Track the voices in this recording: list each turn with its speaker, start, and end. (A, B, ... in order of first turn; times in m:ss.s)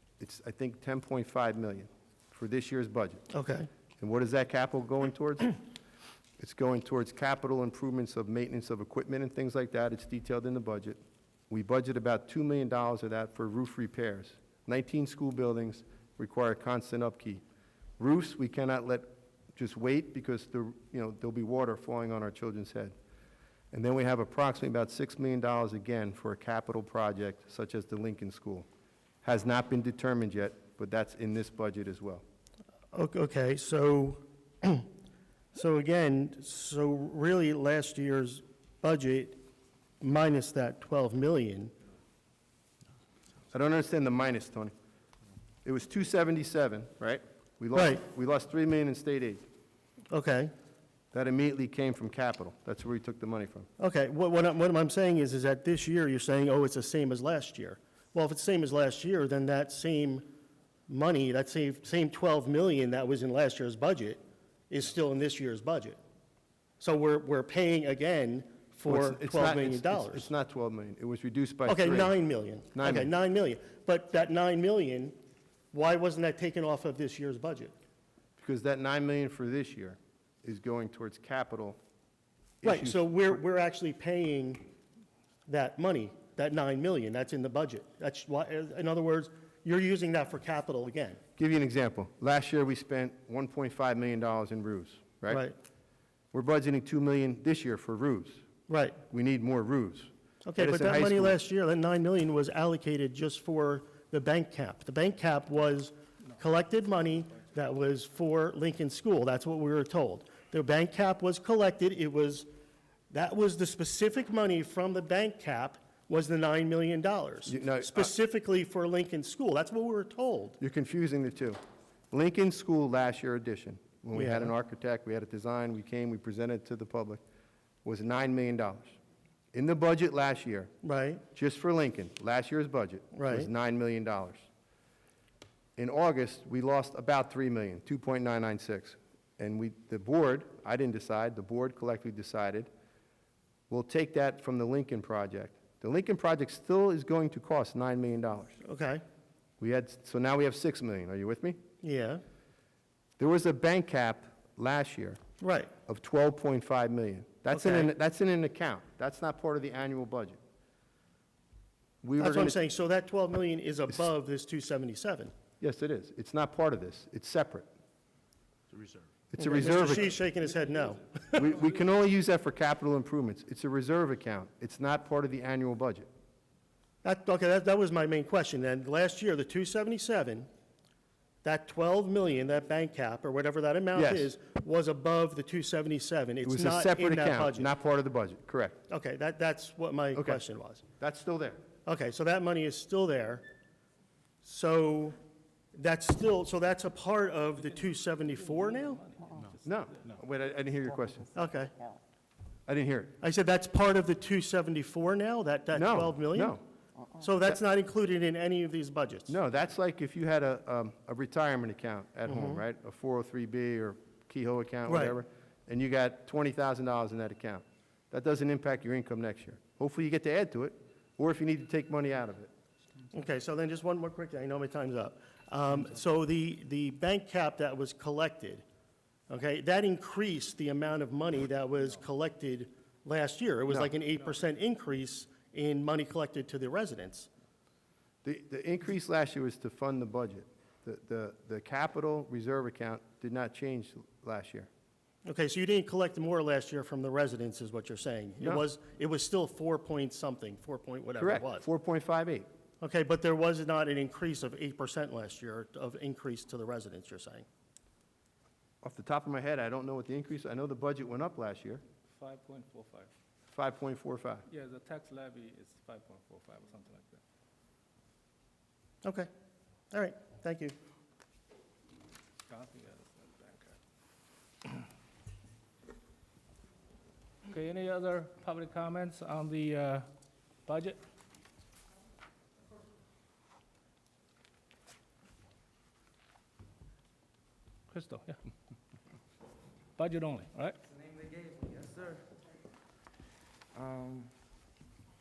0:00.2-0:03.3 A
0:03.3-0:03.7 B
0:04.0-0:05.6 A
0:06.4-0:11.0 A
0:11.5-0:17.4 A
0:18.0-0:22.9 A
0:23.7-0:28.7 A
0:29.2-0:32.2 A
0:32.9-0:34.9 B
0:35.5-0:39.4 B
0:40.0-0:41.7 B
0:43.5-0:44.7 A
0:45.6-0:49.4 A
0:47.7-0:48.0 B
0:50.1-0:50.5 B
0:51.1-0:53.7 A
0:53.8-1:00.3 B
1:00.9-1:06.0 B
1:06.8-1:10.3 B
1:08.9-1:12.1 A
1:11.6-1:15.2 B
1:12.7-1:13.1 A
1:15.7-1:17.7 B
1:18.4-1:21.8 A
1:22.6-1:23.0 A
1:22.6-1:24.7 B
1:25.5-1:31.2 B
1:31.4-1:35.4 A
1:35.3-1:35.6 B
1:36.3-1:38.4 A
1:38.7-1:39.0 B
1:39.1-1:41.4 A
1:40.4-1:52.5 B
1:53.1-2:00.6 B
1:57.5-1:58.1 A
2:00.6-2:01.6 A
2:02.1-2:07.2 A
2:04.1-2:04.5 B
2:07.8-2:09.0 A
2:09.5-2:10.7 A
2:10.8-2:11.2 B
2:11.3-2:14.4 A
2:13.1-2:13.5 B
2:15.8-2:22.7 A
2:23.7-2:28.6 A
2:28.6-2:29.0 B
2:29.6-2:31.6 A
2:31.8-2:32.2 B
2:33.2-2:35.2 A
2:35.4-2:35.7 B
2:35.9-2:40.4 A
2:37.5-2:37.9 B
2:42.0-2:42.6 A
2:42.2-2:45.3 B
2:45.6-2:47.7 A
2:49.3-2:50.2 A
2:49.4-2:51.5 B
2:51.4-2:56.1 A
2:57.0-3:00.5 B
3:01.4-3:07.7 B
3:04.0-3:04.3 A
3:06.4-3:08.8 A
3:08.9-3:10.8 B
3:11.0-3:11.6 A
3:11.8-3:13.4 B
3:14.4-3:15.2 B
3:15.7-3:19.2 B
3:19.6-3:21.3 A
3:21.3-3:21.8 B
3:22.7-3:23.1 A
3:23.2-3:26.6 B
3:25.7-3:26.6 A
3:27.2-3:29.3 B
3:29.3-3:42.5 A
3:32.2-3:32.6 B
3:34.9-3:35.1 B
3:43.1-3:48.6 B
3:49.3-3:57.3 B
3:58.2-4:04.7 A
4:05.2-4:11.7 B
4:11.2-4:12.5 A
4:12.8-4:17.4 B
4:18.8-4:21.8 A
4:22.1-4:23.1 C
4:23.5-4:24.4 A
4:24.5-4:27.2 C
4:29.0-4:29.3 B
4:29.9-4:30.8 B
4:32.5-4:33.7 C
4:37.4-4:40.1 C
4:40.6-4:41.0 C
4:47.9-4:48.4 C
4:50.0-4:50.8 C
4:50.8-4:52.3 D
4:53.7-4:54.3 D